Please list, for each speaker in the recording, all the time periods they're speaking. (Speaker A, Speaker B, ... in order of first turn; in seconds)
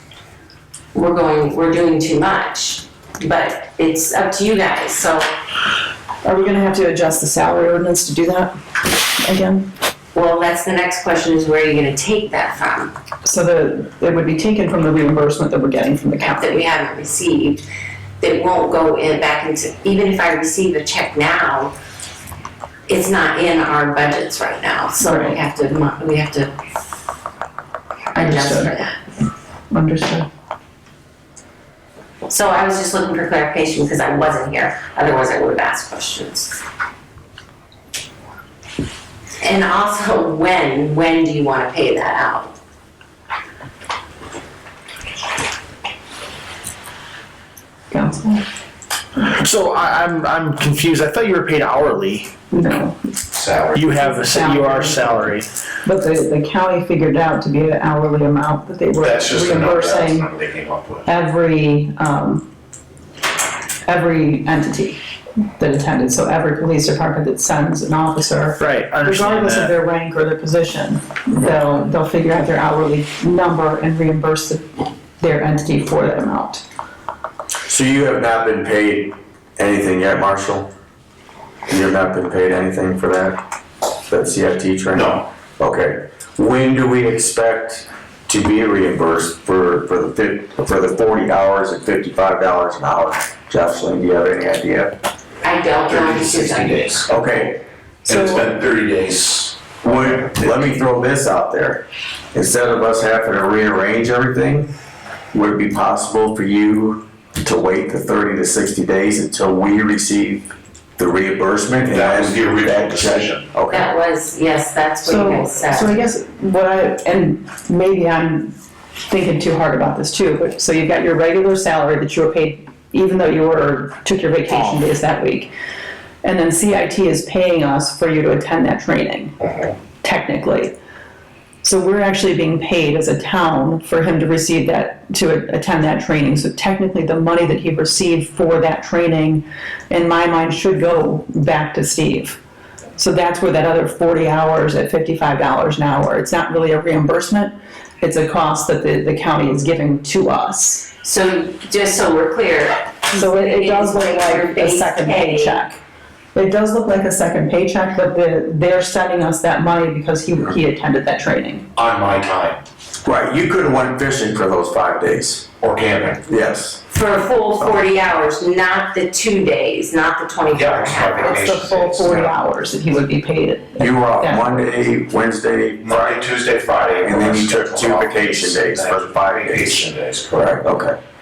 Speaker A: 0.9-5.3, 10.1-12.9, 16.2-17.6, 18.2-21.7, 22.9-26.5, 28.1-29.0, 32.3-36.5, 39.4-42.5, 95.4-97.0, 113.7-116.0, 151.0-155.7, 166.9-171.4
Speaker B: 6.2-9.7, 13.2-16.6, 25.0-25.4, 28.1-28.7, 29.7-30.3, 47.9-48.4, 52.5-53.0, 53.9-60.3, 61.0-62.5, 63.9-76.6, 98.0-98.5, 115.0-118.5, 119.1-125.5, 126.2-129.3, 130.0-130.8, 131.6-142.4, 143.0-150.9, 153.2-155.8, 156.3-161.7, 171.2-174.6
Speaker C: 49.2-52.3, 53.7-55.5, 68.6-69.7, 124.5-124.8
Speaker D: 53.3-53.9, 59.0-61.1, 84.9-85.2, 95.8-97.1, 98.0-100.3, 111.8-113.5, 161.8-162.6, 165.6-166.2, 170.5-172.3, 175.8-180.6
Speaker E: 77.7-80.7, 81.7-83.4, 84.1-95.0, 97.1-97.6, 99.8-104.7, 105.3-113.9, 163.0-165.4, 166.3-166.8, 173.8-176.2, 177.0-180.9